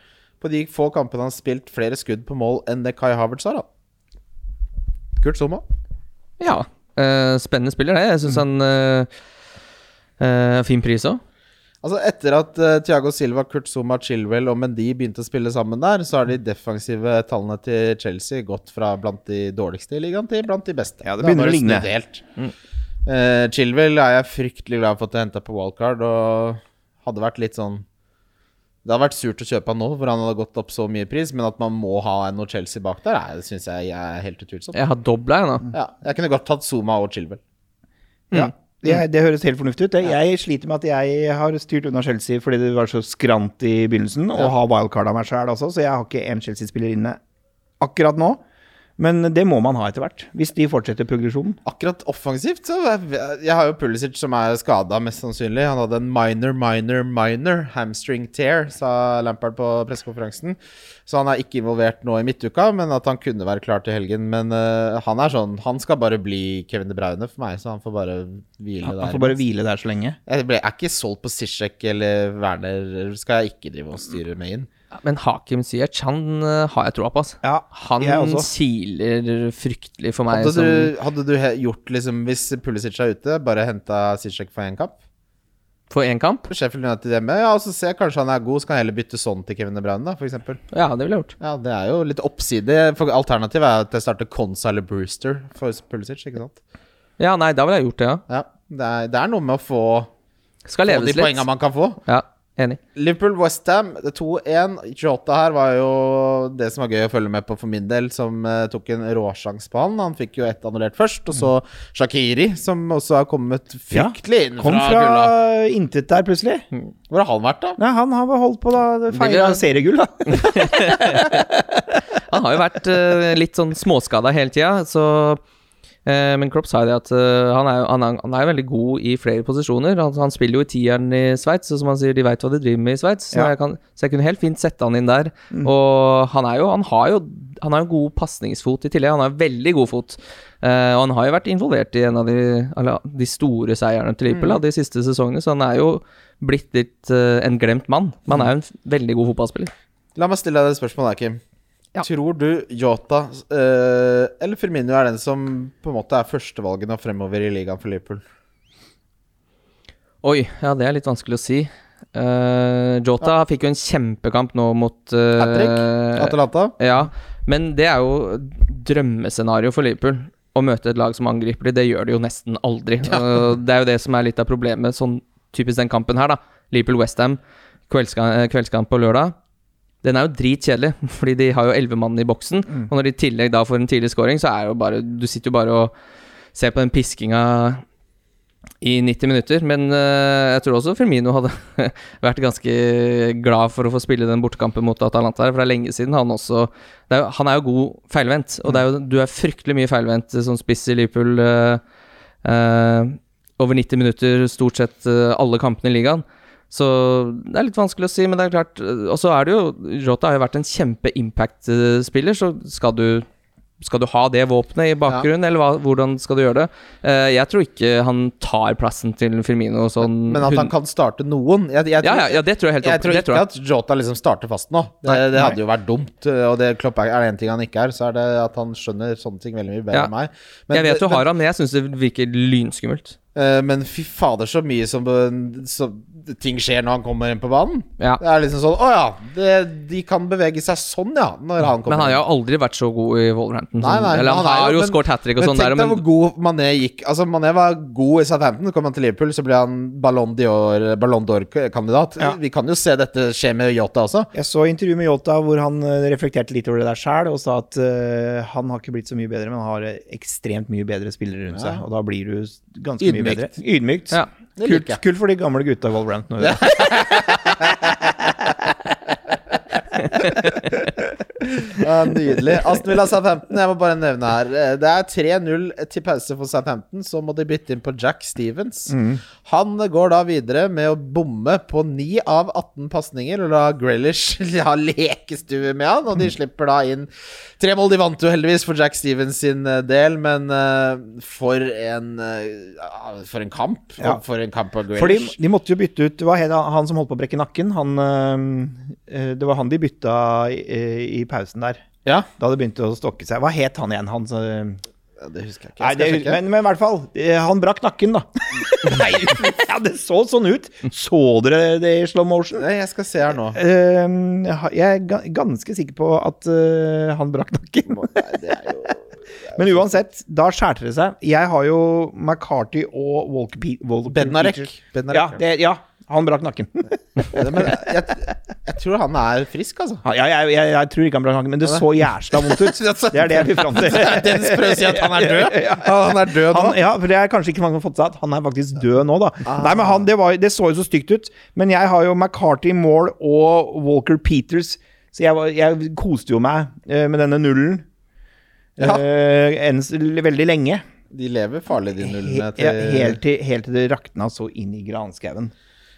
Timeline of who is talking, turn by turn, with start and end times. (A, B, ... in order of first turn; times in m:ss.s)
0:00.4-0:03.7 A
0:05.2-0:05.6 A
0:06.4-0:09.1 B
0:10.2-0:11.2 B
0:11.8-0:22.2 A
0:21.0-0:21.9 C
0:23.0-0:27.8 A
0:28.8-0:34.8 A
0:34.7-0:35.7 B
0:35.7-0:37.4 A
0:38.3-0:47.2 C
0:47.8-0:48.4 C
0:49.0-0:51.6 C
0:51.6-1:09.4 A
1:08.8-1:10.2 C
1:10.3-1:14.7 A
1:14.9-1:20.9 B
1:17.4-1:18.5 C
1:20.3-1:25.0 A
1:25.9-1:26.4 B
1:26.5-1:30.6 A
1:30.7-1:31.3 B
1:31.4-1:36.6 A
1:37.2-1:38.2 B
1:38.3-1:40.1 A
1:40.7-1:41.4 B
1:40.9-1:42.0 A
1:42.0-1:42.8 B
1:42.9-1:55.3 A
1:53.9-1:56.6 C
1:57.1-1:57.8 A
1:57.8-2:01.4 C
1:59.1-1:59.6 B
2:00.3-2:01.4 B
2:02.3-2:05.4 B
2:06.0-2:29.7 B
2:24.3-2:24.6 A
2:30.2-2:31.4 A
2:32.0-2:38.2 A
2:40.2-2:59.3 B
2:45.4-2:46.7 A
3:00.0-3:05.9 B
3:06.5-3:07.8 B
3:08.8-3:21.8 B
3:22.4-3:33.2 B
3:33.8-3:40.7 B
3:40.0-3:51.2 A
3:42.0-3:43.4 B
3:50.7-3:53.2 B
3:53.3-4:02.2 A
4:01.9-4:06.0 B
4:03.8-4:14.3 A
4:14.3-4:27.3 C
4:21.5-4:21.8 A
4:23.0-4:23.5 A
4:24.6-4:25.0 A
4:26.4-4:28.0 A
4:30.2-4:30.5 B
4:31.4-4:55.3 A
4:38.9-4:39.2 C
4:54.9-5:01.8 C
5:02.4-5:04.8 C
5:05.2-5:06.4 A
5:05.8-5:12.6 C
5:08.8-5:09.5 A
5:12.5-5:13.6 A
5:13.5-5:18.4 C
5:17.9-5:19.9 A
5:19.5-5:27.9 C
5:24.1-5:25.4 A
5:27.3-5:30.0 A
5:30.0-5:47.8 C
5:31.6-5:36.8 A
5:39.4-5:39.9 A
5:48.8-5:49.0 A
5:48.8-5:50.8 C
5:51.1-5:53.2 A
5:52.0-5:55.5 C